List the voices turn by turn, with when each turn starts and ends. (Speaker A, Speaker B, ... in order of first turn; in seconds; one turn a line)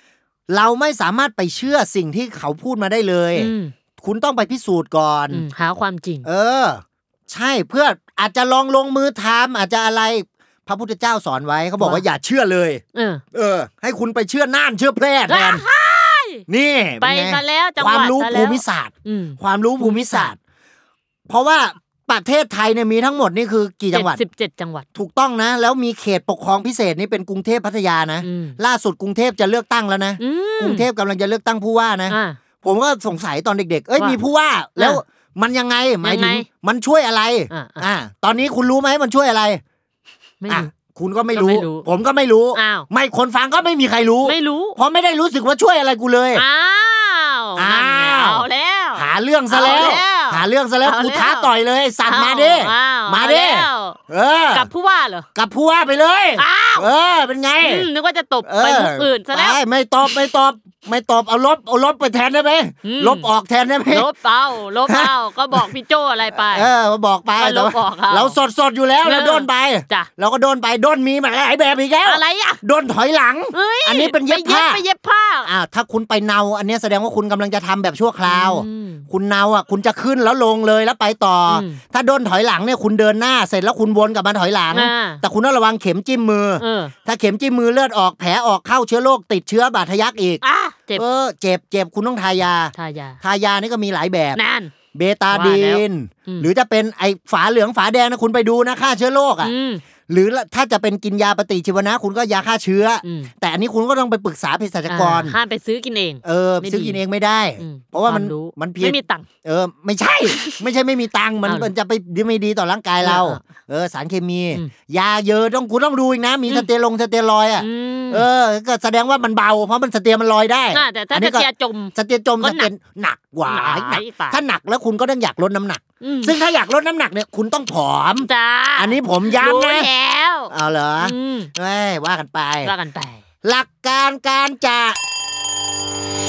Speaker A: 0.5-5.5
Speaker B: 3.4-3.7
Speaker B: 5.3-6.3
Speaker A: 6.2-12.8
Speaker B: 11.8-12.0
Speaker B: 12.9-13.2
Speaker A: 13.3-15.6
Speaker B: 15.3-16.4
Speaker A: 16.5-20.4
Speaker B: 17.0-20.3
Speaker A: 21.3-24.2
Speaker B: 23.9-24.9
Speaker A: 24.9-39.6
Speaker B: 28.2-28.6
Speaker B: 30.2-30.9
Speaker B: 32.1-32.4
Speaker B: 34.0-34.2
Speaker B: 34.8-35.0
Speaker B: 36.0-36.5
Speaker B: 37.5-37.9
Speaker B: 40.4-40.7
Speaker A: 40.5-46.4
Speaker B: 41.3-41.9
Speaker B: 42.5-42.9
Speaker B: 44.2-44.8
Speaker B: 46.3-51.5
Speaker A: 47.5-54.7
Speaker B: 52.0-54.0
Speaker B: 54.5-55.2
Speaker A: 55.4-57.9
Speaker B: 56.4-56.9
Speaker B: 57.6-59.6
Speaker A: 58.4-64.1
Speaker B: 62.8-63.3
Speaker B: 63.9-66.7
Speaker A: 64.8-65.7
Speaker A: 66.3-74.8
Speaker B: 67.4-68.4
Speaker B: 69.0-70.1
Speaker B: 72.0-72.6
Speaker B: 73.5-75.5
Speaker A: 75.4-90.4
Speaker B: 78.2-79.0
Speaker B: 81.5-81.8
Speaker B: 84.7-85.2
Speaker B: 86.6-86.9
Speaker B: 90.4-91.0
Speaker A: 90.9-94.4
Speaker B: 92.7-93.2
Speaker B: 94.3-94.7
Speaker A: 94.9-99.5
Speaker B: 95.3-96.5
Speaker B: 99.4-99.8
Speaker A: 100.1-105.4
Speaker B: 103.0-103.3
Speaker B: 104.9-107.0
Speaker A: 106.2-129.9
Speaker B: 107.6-109.3
Speaker B: 110.2-110.6
Speaker B: 111.4-111.7
Speaker B: 113.0-113.4
Speaker B: 117.6-118.2
Speaker B: 120.7-122.7
Speaker B: 123.4-124.4
Speaker B: 126.0-126.3
Speaker B: 128.2-131.5
Speaker A: 130.5-132.7
Speaker B: 132.6-133.2
Speaker A: 133.4-135.0